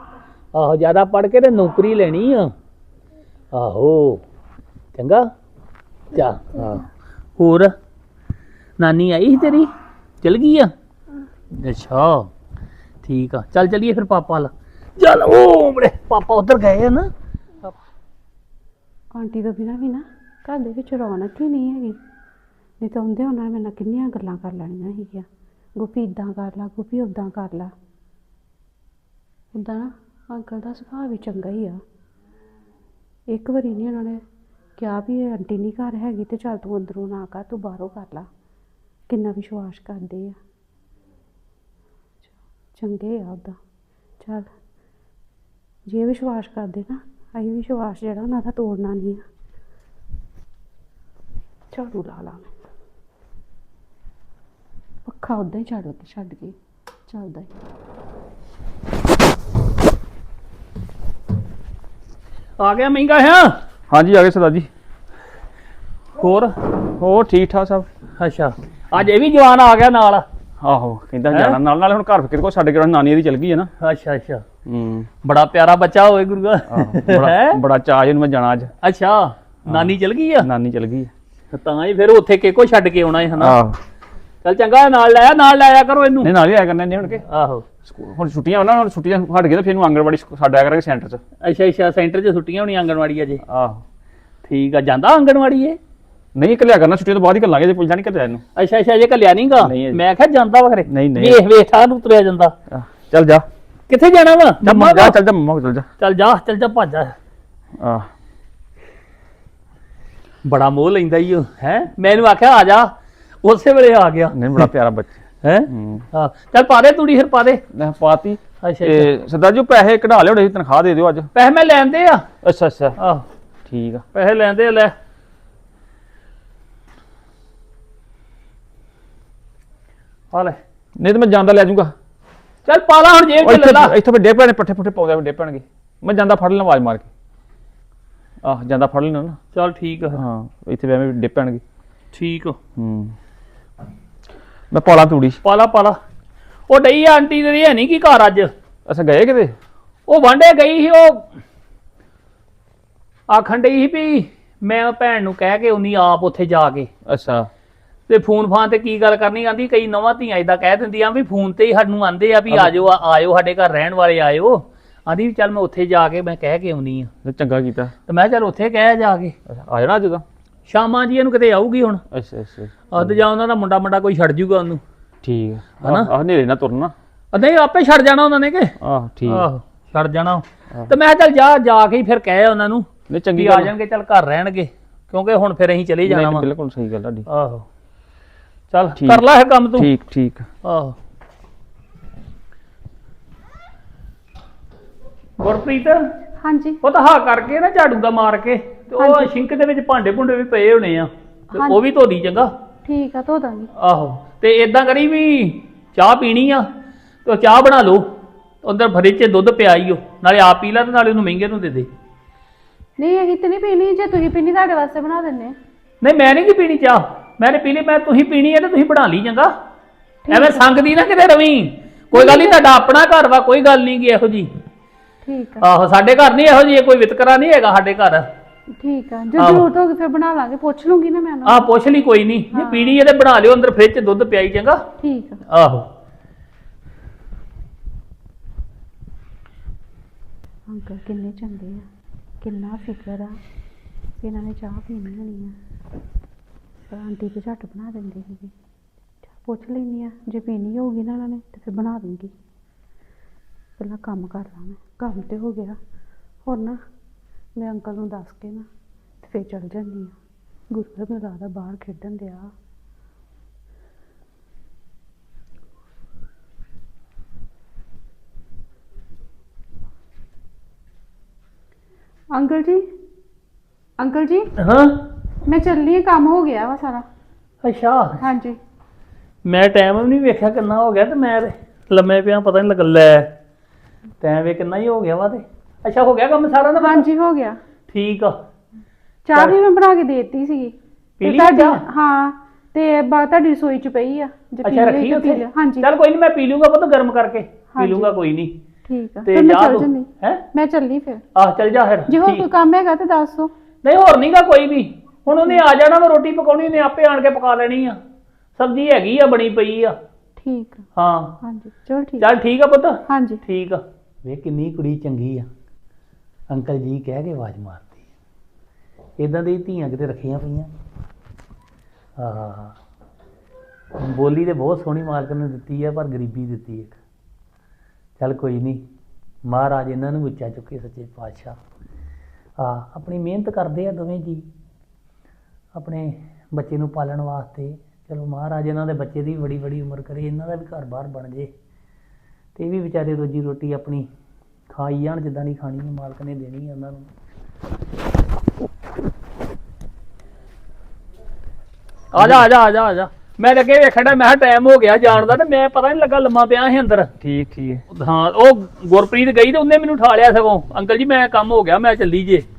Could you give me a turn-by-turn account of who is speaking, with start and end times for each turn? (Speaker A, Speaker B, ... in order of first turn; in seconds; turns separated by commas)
Speaker A: 0.5-2.5, Speaker A: 3.5-4.2, Speaker A: 5.0-5.3, Speaker A: 6.1-7.7, Speaker A: 8.8-9.7, Speaker A: 10.2-10.7, Speaker A: 11.6-12.3, Speaker A: 13.0-17.1, Speaker B: 19.1-22.0, Speaker B: 22.8-25.3, Speaker B: 25.8-27.7, Speaker B: 29.6-31.8, Speaker B: 33.3-34.2, Speaker B: 34.8-38.3, Speaker B: 39.1-40.4, Speaker B: 42.8-43.6, Speaker B: 44.2-44.5, Speaker B: 45.9-49.2, Speaker B: 51.7-52.5, Speaker B: 55.1-56.5, Speaker B: 57.1-57.5, Speaker A: 62.6-63.6, Speaker C: 63.9-64.7, Speaker A: 66.2-66.5, Speaker C: 67.0-67.9, Speaker A: 68.2-70.3, Speaker C: 70.6-73.7, Speaker A: 73.8-74.4, Speaker C: 74.7-75.1, Speaker A: 75.2-77.6, Speaker C: 76.7-78.7, Speaker A: 78.8-80.5, Speaker C: 80.4-81.1, Speaker A: 81.5-83.6, Speaker C: 83.4-83.8, Speaker A: 84.4-86.3, Speaker C: 86.2-87.2, Speaker A: 87.3-87.7, Speaker C: 87.8-91.2, Speaker A: 91.4-93.4, Speaker C: 93.5-93.8, Speaker A: 94.4-95.8, Speaker C: 96.4-98.4, Speaker A: 98.6-102.5, Speaker C: 99.6-100.0, Speaker C: 100.9-101.4, Speaker C: 102.7-103.5, Speaker A: 103.9-105.2, Speaker C: 104.6-105.9, Speaker A: 106.0-107.2, Speaker C: 107.8-108.1, Speaker A: 110.5-114.7, Speaker C: 114.3-115.1, Speaker A: 115.4-117.6, Speaker C: 115.7-116.0, Speaker C: 117.8-121.3, Speaker A: 118.6-119.1, Speaker A: 121.3-122.3, Speaker C: 122.4-123.0, Speaker A: 123.0-123.2, Speaker C: 123.7-124.0, Speaker A: 124.1-124.9, Speaker A: 130.3-130.6, Speaker C: 131.0-131.9, Speaker A: 132.7-134.0, Speaker C: 133.4-137.1, Speaker C: 138.4-139.4, Speaker A: 139.5-140.2, Speaker C: 140.2-141.6, Speaker A: 142.1-142.6, Speaker C: 142.8-143.2, Speaker C: 144.7-145.4, Speaker A: 145.4-146.0, Speaker A: 146.7-148.5, Speaker C: 148.9-149.6, Speaker A: 150.1-151.3, Speaker A: 153.3-156.9, Speaker C: 157.1-157.5, Speaker A: 158.1-167.1, Speaker C: 167.2-167.9, Speaker A: 168.1-169.3, Speaker C: 169.5-170.2, Speaker A: 170.7-172.0, Speaker C: 172.1-173.0, Speaker A: 172.9-174.8, Speaker C: 175.2-176.9, Speaker A: 175.8-176.1, Speaker A: 177.3-178.7, Speaker C: 178.8-179.4, Speaker A: 179.2-186.5, Speaker C: 183.1-183.7, Speaker C: 186.1-187.3, Speaker A: 187.3-187.7, Speaker A: 188.7-189.9, Speaker C: 189.8-190.4, Speaker A: 190.6-190.9, Speaker A: 195.4-196.0, Speaker B: 196.4-196.8, Speaker A: 196.8-202.5, Speaker B: 199.0-199.3, Speaker B: 201.5-201.8, Speaker B: 202.8-203.7, Speaker A: 203.8-206.7, Speaker A: 207.2-211.9, Speaker B: 213.0-215.6, Speaker A: 216.0-219.5, Speaker B: 220.3-220.7, Speaker A: 220.3-224.5, Speaker B: 222.1-222.6, Speaker B: 225.2-225.7, Speaker A: 225.6-228.3, Speaker B: 228.8-231.7, Speaker A: 229.4-229.7, Speaker A: 231.5-234.8, Speaker B: 232.5-233.0, Speaker B: 235.0-235.4, Speaker A: 235.5-235.9, Speaker B: 240.7-241.8, Speaker B: 242.4-243.4, Speaker B: 244.2-245.6, Speaker B: 246.9-248.5, Speaker B: 249.3-252.3, Speaker B: 253.8-255.8, Speaker B: 256.5-256.8, Speaker B: 257.6-258.7, Speaker B: 259.2-260.2, Speaker B: 260.7-262.5, Speaker B: 272.3-272.8, Speaker B: 274.0-274.5, Speaker A: 274.6-275.1, Speaker B: 275.4-277.1, Speaker A: 277.6-278.2, Speaker B: 278.2-278.6, Speaker A: 279.4-283.4, Speaker A: 284.2-287.1, Speaker B: 286.8-287.6, Speaker A: 287.9-288.4, Speaker B: 289.3-295.9, Speaker A: 291.2-291.8, Speaker A: 294.6-298.6, Speaker B: 297.8-298.2, Speaker B: 298.9-301.2, Speaker A: 299.2-300.4, Speaker A: 301.4-302.5, Speaker B: 302.1-303.5, Speaker A: 303.8-308.0, Speaker A: 308.6-310.0, Speaker B: 310.4-310.9, Speaker A: 311.0-311.4, Speaker B: 311.4-312.3, Speaker A: 312.2-315.5, Speaker B: 313.1-313.4, Speaker A: 316.5-318.0, Speaker A: 319.2-320.7, Speaker A: 322.2-322.8, Speaker A: 324.0-327.0, Speaker A: 328.2-328.9, Speaker A: 329.5-331.6, Speaker A: 332.6-334.5, Speaker A: 335.8-341.5, Speaker A: 342.6-344.1, Speaker A: 344.7-347.1, Speaker A: 352.1-357.1, Speaker C: 357.2-357.8, Speaker A: 357.9-362.5